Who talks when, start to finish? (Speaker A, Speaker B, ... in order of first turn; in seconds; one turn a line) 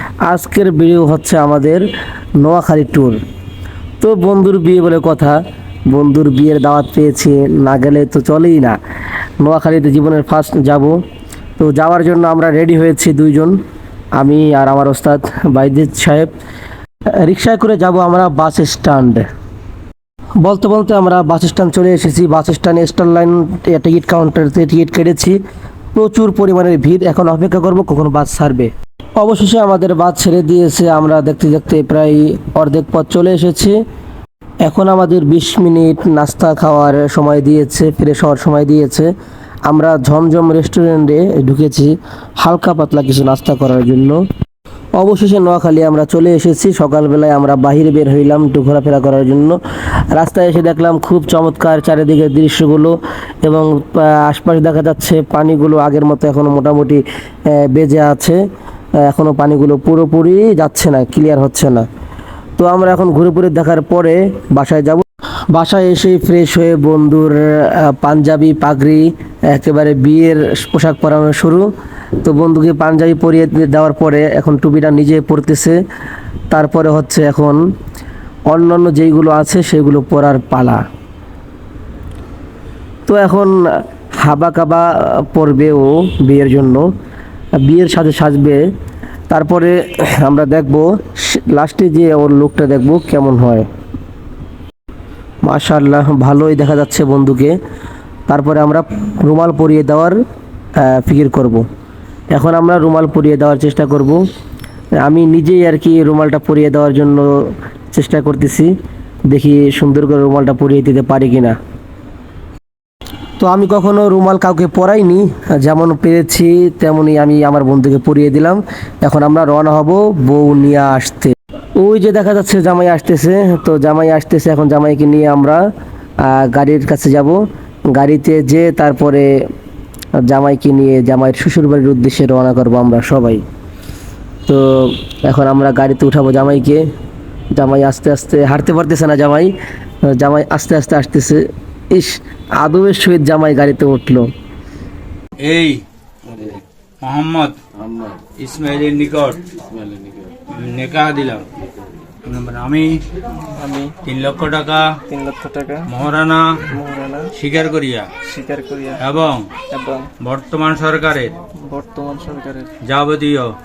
Speaker A: 0.2-1.8
Speaker A: 2.4-3.2
Speaker A: 4.0-8.8
Speaker A: 9.4-11.0
Speaker A: 11.6-13.6
Speaker A: 14.2-16.3
Speaker A: 17.2-19.2
Speaker A: 20.4-25.4
Speaker A: 25.9-33.8
Speaker A: 34.6-39.1
Speaker A: 39.7-44.2
Speaker A: 45.0-49.6
Speaker A: 50.1-58.4
Speaker A: 59.0-61.8
Speaker A: 62.6-71.7
Speaker A: 72.2-75.8
Speaker A: 76.5-77.6
Speaker A: 78.5-80.8
Speaker A: 83.1-86.9
Speaker A: 87.6-88.6
Speaker A: 89.3-93.7
Speaker A: 95.4-97.5
Speaker A: 98.3-100.2
Speaker A: 100.8-101.6
Speaker A: 102.3-104.2
Speaker A: 105.0-108.7
Speaker A: 109.3-111.5
Speaker A: 113.4-125.6
Speaker A: 126.2-129.4
Speaker A: 130.2-133.4
Speaker A: 134.5-136.8
Speaker A: 137.5-139.5
Speaker A: 140.0-144.3
Speaker B: 145.4-145.8
Speaker B: 146.3-147.6
Speaker B: 148.4-149.4
Speaker B: 150.5-151.4
Speaker B: 152.2-153.0
Speaker C: 153.5-154.0
Speaker B: 154.0-155.0
Speaker C: 155.1-155.9
Speaker B: 155.9-156.7
Speaker C: 156.7-157.3
Speaker B: 157.3-158.2
Speaker C: 158.2-159.0
Speaker B: 159.0-159.6
Speaker C: 159.7-160.1
Speaker B: 160.2-161.4
Speaker C: 161.5-162.7
Speaker B: 162.8-163.6